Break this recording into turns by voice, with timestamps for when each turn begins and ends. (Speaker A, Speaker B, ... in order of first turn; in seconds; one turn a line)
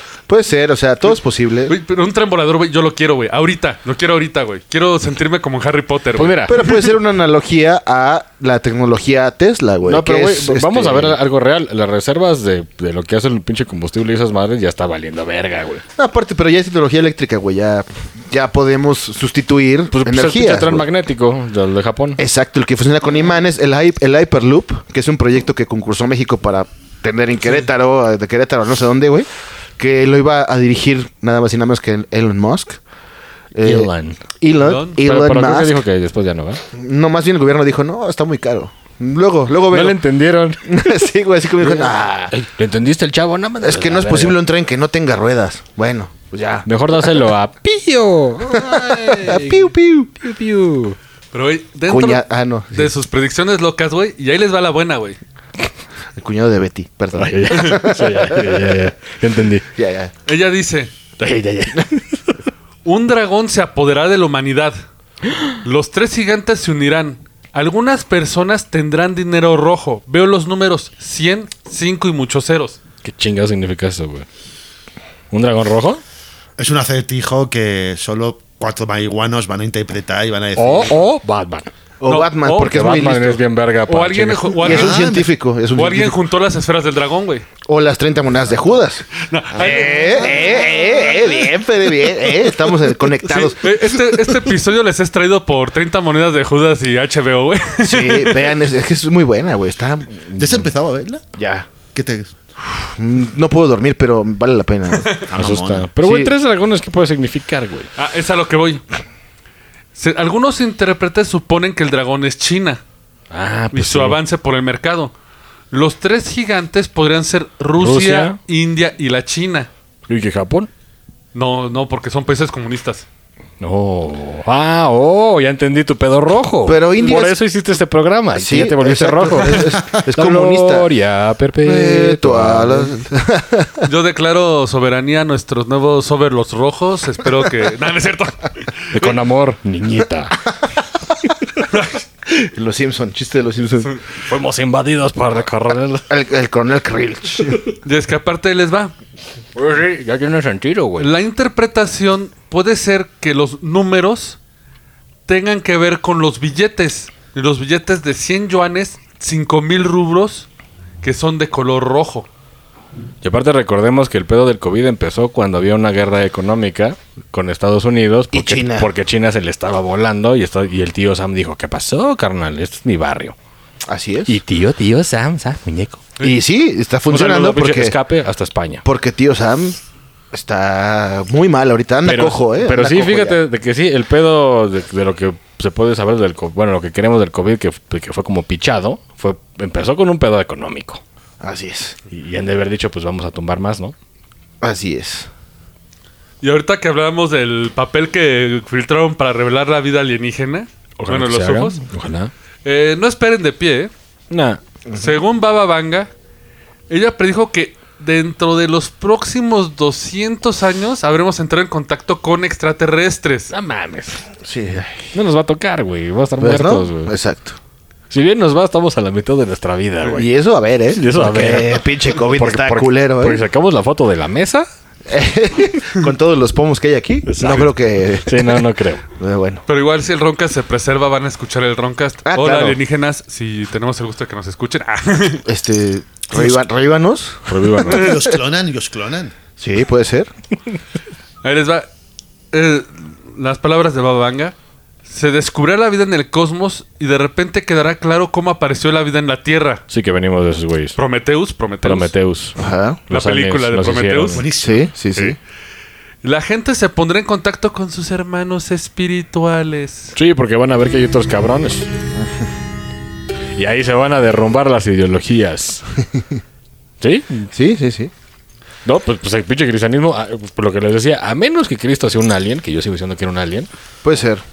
Speaker A: 0.3-1.8
Speaker B: 1.7-6.8
Speaker C: 6.2-6.6
Speaker A: 6.5-11.2
Speaker C: 9.8-15.8
Speaker A: 15.9-20.9
Speaker C: 19.9-22.2
Speaker A: 22.2-29.3
Speaker A: 29.8-32.8
Speaker A: 33.5-35.8
Speaker C: 33.6-34.2
Speaker B: 34.6-35.0
Speaker C: 35.0-36.6
Speaker A: 36.7-40.0
Speaker C: 39.7-40.8
Speaker A: 40.6-42.3
Speaker C: 41.6-44.4
Speaker A: 43.6-47.3
Speaker C: 46.6-51.0
Speaker A: 48.5-50.1
Speaker B: 51.3-55.2
Speaker A: 51.9-52.9
Speaker A: 56.1-58.6
Speaker C: 57.1-59.6
Speaker A: 59.7-60.1
Speaker B: 60.2-60.9
Speaker C: 61.2-62.2
Speaker B: 62.8-64.8
Speaker B: 65.6-72.8
Speaker C: 73.0-74.2
Speaker C: 75.3-76.0
Speaker D: 76.6-81.0
Speaker C: 80.5-81.7
Speaker A: 82.0-83.4
Speaker B: 82.0-83.1
Speaker C: 82.5-84.6
Speaker B: 83.9-85.1
Speaker A: 84.6-86.2
Speaker D: 84.6-85.3
Speaker B: 85.7-87.4
Speaker A: 87.7-93.9
Speaker B: 89.2-91.3
Speaker D: 89.5-90.5
Speaker B: 93.3-98.5
Speaker A: 97.8-100.7
Speaker D: 100.4-101.2
Speaker A: 101.3-101.7
Speaker D: 101.9-102.3
Speaker A: 102.8-105.2
Speaker D: 105.3-105.9
Speaker C: 105.3-107.9
Speaker A: 106.0-106.3
Speaker B: 108.0-108.8
Speaker B: 109.9-112.8
Speaker C: 113.3-114.2
Speaker B: 113.7-115.1
Speaker B: 115.7-119.7
Speaker C: 117.8-118.4
Speaker C: 120.1-120.7
Speaker B: 121.3-123.0
Speaker C: 123.6-132.9
Speaker A: 126.6-127.4
Speaker A: 128.3-130.9
Speaker A: 131.6-133.9
Speaker B: 133.8-139.1
Speaker C: 138.9-140.4
Speaker B: 141.7-142.0
Speaker A: 142.3-143.9
Speaker C: 144.2-146.1
Speaker A: 146.1-147.6
Speaker B: 147.8-148.9
Speaker C: 149.5-151.1
Speaker B: 151.0-154.4
Speaker B: 155.3-160.5
Speaker B: 161.0-162.3
Speaker C: 163.2-173.3
Speaker A: 168.3-168.9
Speaker A: 173.8-174.4
Speaker C: 174.3-176.0
Speaker A: 176.2-178.0
Speaker C: 177.1-178.8
Speaker A: 178.8-179.8
Speaker A: 180.3-183.4
Speaker C: 182.0-191.0
Speaker A: 191.4-191.9
Speaker C: 192.1-193.9
Speaker A: 194.6-195.3
Speaker B: 196.4-201.8
Speaker C: 201.0-202.3
Speaker B: 202.6-203.9
Speaker C: 204.3-204.6
Speaker A: 204.9-205.2
Speaker B: 204.9-206.1
Speaker B: 206.9-213.5
Speaker C: 213.5-214.2
Speaker A: 214.4-215.1
Speaker C: 215.1-217.1
Speaker A: 216.4-217.6
Speaker C: 218.1-220.3
Speaker A: 220.1-223.4
Speaker C: 221.0-224.7
Speaker A: 225.1-228.6
Speaker C: 227.3-227.7
Speaker B: 227.4-227.7
Speaker C: 228.2-229.0
Speaker A: 229.2-229.6
Speaker B: 229.7-235.4
Speaker A: 232.2-232.8
Speaker A: 235.4-238.3
Speaker C: 237.5-238.1
Speaker D: 237.9-239.3
Speaker A: 239.6-240.3
Speaker B: 241.4-241.9
Speaker B: 242.5-244.5
Speaker B: 245.1-249.8
Speaker C: 249.9-251.0
Speaker B: 251.0-252.1
Speaker C: 251.8-254.4
Speaker A: 252.6-253.0
Speaker B: 253.1-254.6
Speaker D: 254.3-254.9
Speaker A: 254.6-255.4
Speaker B: 256.2-260.1
Speaker C: 260.1-261.9
Speaker A: 262.2-262.4
Speaker C: 263.6-265.8
Speaker C: 267.0-267.5
Speaker A: 267.5-268.1
Speaker C: 268.8-273.7
Speaker A: 274.0-274.4